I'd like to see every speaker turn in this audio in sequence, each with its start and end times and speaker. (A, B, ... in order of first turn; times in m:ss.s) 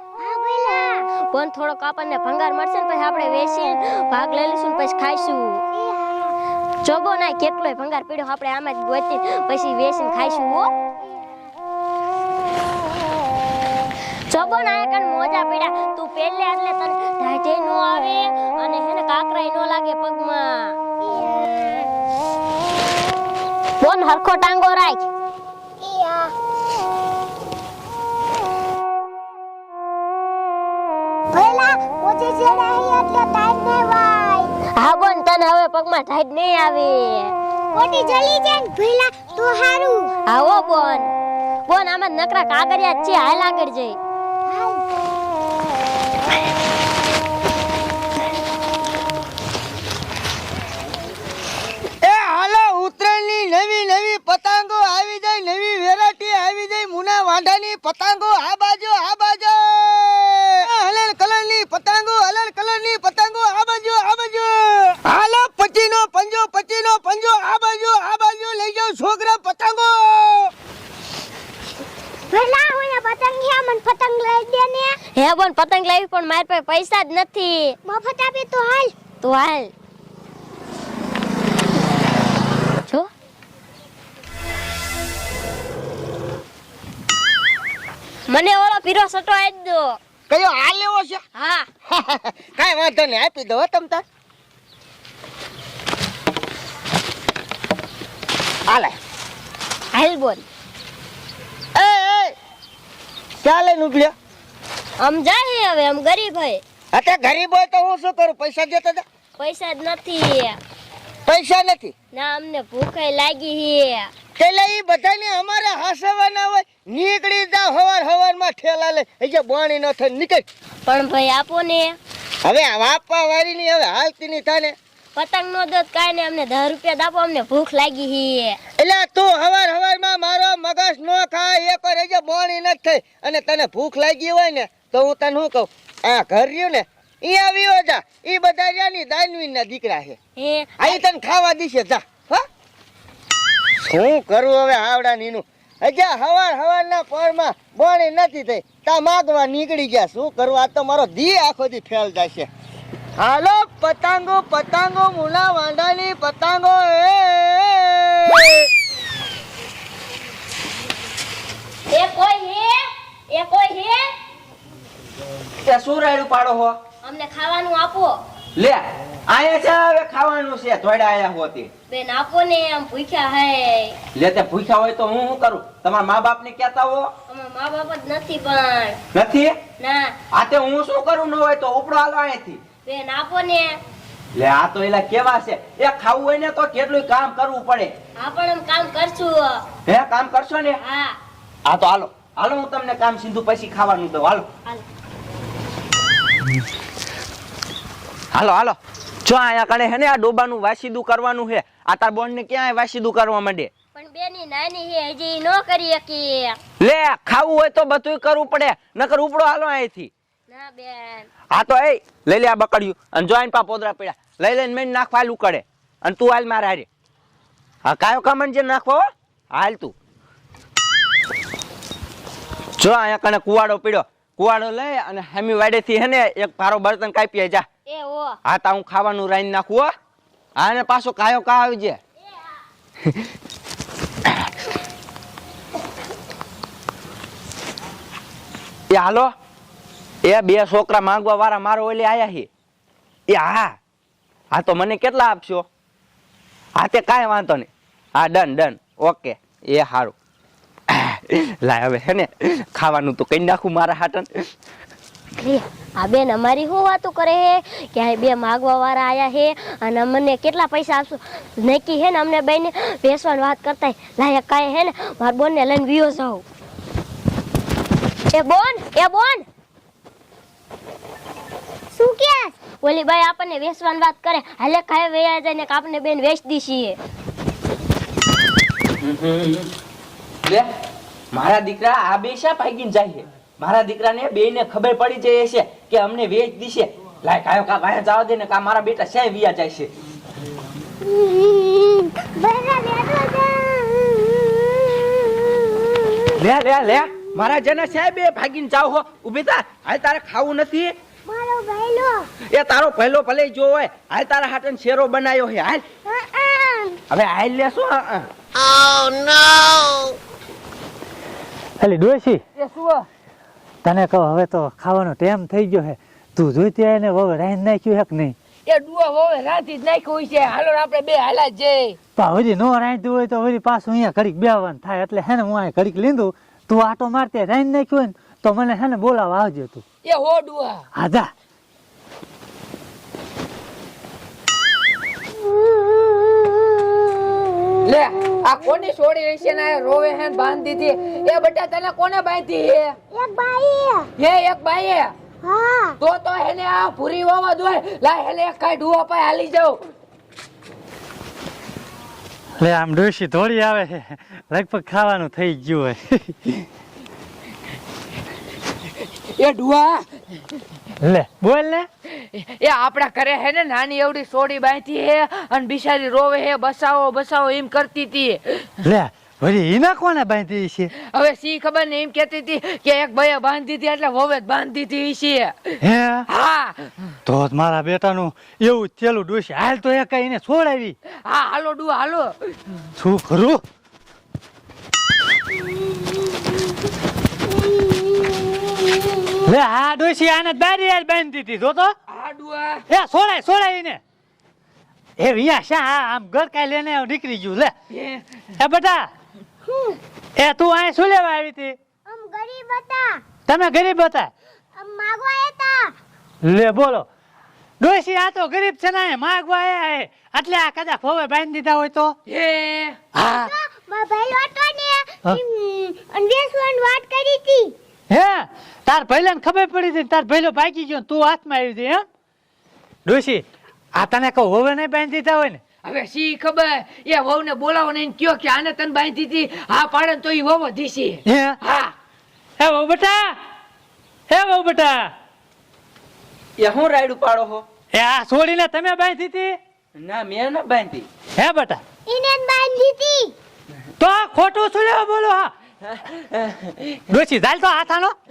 0:00.2-0:01.1 A
0:01.3-0:05.6 B
0:05.7-0:06.3 A
0:06.8-0:10.7 B
0:14.3-0:20.8 B
0:21.0-0:21.9 A
0:23.8-0:25.0 B
0:25.8-0:26.3 A
0:31.3-0:34.5 A
0:34.8-0:37.3 B
0:37.7-0:40.1 A
0:40.3-0:41.1 B
0:41.7-0:44.0 B
0:44.5-0:44.8 A
0:52.0-1:10.5 C
1:12.3-1:15.0 A
1:15.2-1:17.8 B
1:17.8-1:18.9 A
1:19.2-1:19.7 B
1:28.3-1:30.0 B
1:30.3-1:31.2 C
1:31.4-1:31.6 B
1:31.9-1:34.0 C
1:39.9-1:40.4 B
1:41.8-1:42.3 C
1:43.4-1:44.1 C
1:45.0-1:46.6 B
1:46.9-1:49.0 C
1:49.4-1:50.6 B
1:51.3-1:51.9 C
1:52.1-1:54.1 B
1:54.4-2:00.4 C
2:00.9-2:02.0 B
2:02.4-2:04.8 C
2:05.2-2:08.6 B
2:08.8-2:20.2 C
2:20.4-2:20.9 B
2:20.8-2:22.4 C
2:23.9-2:32.5 C
2:33.2-2:38.7 C
2:41.9-2:44.1 B
2:45.6-2:46.8 D
2:47.0-2:48.1 B
2:48.6-2:51.7 D
2:51.9-2:54.0 B
2:54.2-2:57.1 D
2:57.3-2:59.0 B
2:59.1-2:59.6 D
2:59.8-3:00.1 B
3:00.3-3:02.6 D
3:02.8-3:03.7 B
3:04.4-3:07.9 D
3:08.2-3:09.6 B
3:09.9-3:10.8 D
3:10.8-3:11.1 B
3:11.7-3:14.5 D
3:18.3-3:23.7 D
3:24.0-3:26.6 B
3:26.8-3:30.1 D
3:30.5-3:31.3 B
3:31.5-3:36.9 D
3:37.8-3:40.0 D
3:42.8-3:47.7 D
3:47.9-3:48.4 B
3:48.5-3:49.9 D
3:50.6-3:52.0 D
3:58.9-3:59.3 D
4:00.2-4:02.5 D
4:03.3-4:03.7 D
4:04.5-4:05.7 D
4:06.8-4:10.2 D
4:10.9-4:14.3 D
4:15.4-4:26.4 B
4:28.3-4:29.4 B
4:32.0-4:32.5 A
4:32.8-4:37.0 B
4:39.0-4:39.7 D
4:41.3-4:49.9 D
4:51.0-4:56.4 A
4:56.4-5:00.9 D
5:01.3-5:02.3 A
5:02.5-5:05.8 D
5:06.1-5:07.0 A
5:07.1-5:08.3 D
5:11.8-5:12.4 E
5:12.6-5:13.1 F
5:13.8-5:18.4 E
5:18.7-5:22.0 F
5:22.2-5:29.8 E
5:30.0-5:30.8 F
5:31.0-5:31.3 E
5:35.8-5:36.7 A
5:37.8-5:43.0 F
5:43.1-5:44.1 A
5:44.2-5:45.1 F
5:45.4-5:46.0 A
5:46.0-5:49.8 F
5:52.6-5:56.5 E
5:59.3-6:00.1 F
6:01.0-6:01.9 E
6:02.2-6:08.7 F
6:08.8-6:10.9 E
6:11.0-6:15.7 F
6:15.8-6:16.3 E
6:16.3-6:17.1 F
6:17.3-6:21.0 E
6:21.2-6:22.6 F
6:23.0-6:23.6 E
6:29.4-6:31.9 E
6:32.1-6:32.8 F
6:32.9-6:34.0 E
6:35.2-6:37.7 E
6:37.9-6:38.4 F
6:38.6-6:39.1 E
6:39.7-6:40.0 A
6:40.4-6:41.8 E
6:42.1-6:43.2 A
6:43.5-6:44.3 E
6:44.8-6:45.9 A
6:46.4-6:47.1 E
6:47.8-6:52.2 E
6:52.3-6:53.0 F
6:53.2-6:53.5 E
6:53.3-6:57.8 A
6:58.1-7:02.1 E
7:03.1-7:05.6 E
7:05.8-7:11.9 F
7:11.3-7:11.6 E
7:12.6-7:13.3 E
7:14.3-7:15.1 E
7:16.6-7:17.6 D
7:17.9-7:19.6 E
7:20.0-7:21.1 D
7:21.4-7:21.8 E
7:22.1-7:23.3 A
7:24.0-7:25.5 E
7:26.1-7:26.8 D
7:27.1-7:28.2 E